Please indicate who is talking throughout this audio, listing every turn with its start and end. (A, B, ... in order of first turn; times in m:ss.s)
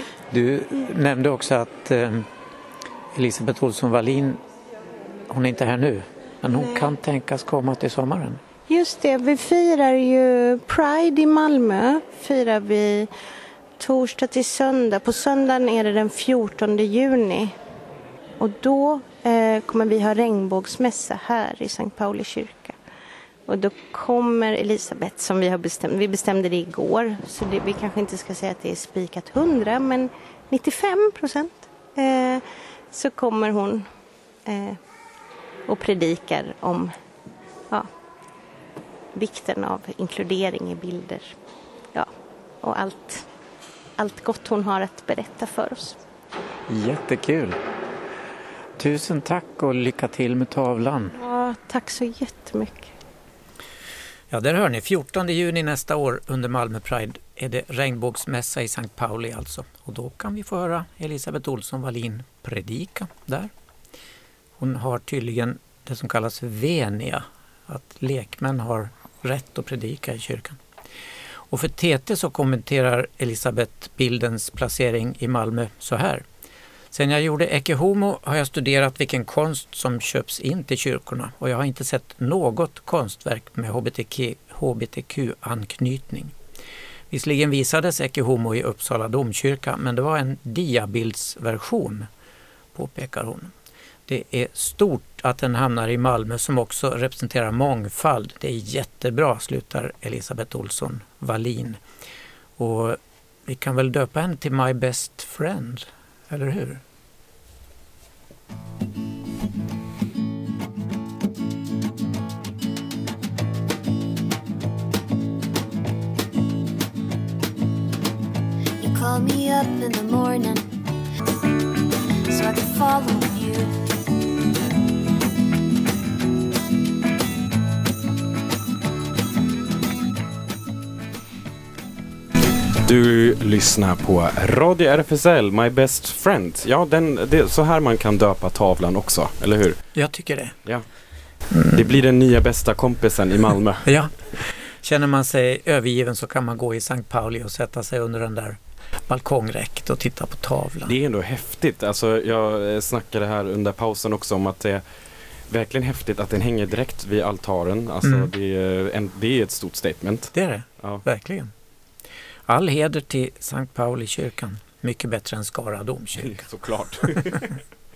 0:00.3-0:02.3 A
0:03.1-0:04.4 A
0:05.3-0:08.4 A
0:06.5-0:06.8 B
0:08.7-0:13.1 B
0:13.8-0:17.5 B
0:18.4-0:22.8 B
0:23.5-0:33.9 B
0:34.4-0:34.8 B
0:35.7-0:36.9 B
0:39.1-0:41.3 B
0:42.6-0:43.2 B
0:44.0-0:46.0 B
0:46.7-0:47.6 A
0:48.8-0:51.2 A
0:51.2-0:52.9 B
0:54.3-1:03.5 A
1:04.6-1:10.6 A
1:11.5-1:16.2 A
1:16.9-1:26.3 A
1:27.1-1:32.1 A
1:32.7-1:33.5 A
1:34.1-1:41.8 A
1:42.6-1:46.8 A
1:58.8-2:00.7 C
2:02.3-2:03.8 C
2:12.8-2:19.8 D
2:19.9-2:20.5 A
2:21.5-2:21.8 A
2:21.7-2:23.9 D
2:23.8-2:30.9 A
2:30.8-2:34.8 D
2:35.5-2:41.0 D
2:38.0-2:38.3 A
2:40.3-2:41.5 A
2:42.5-2:46.4 A
2:46.2-2:47.5 D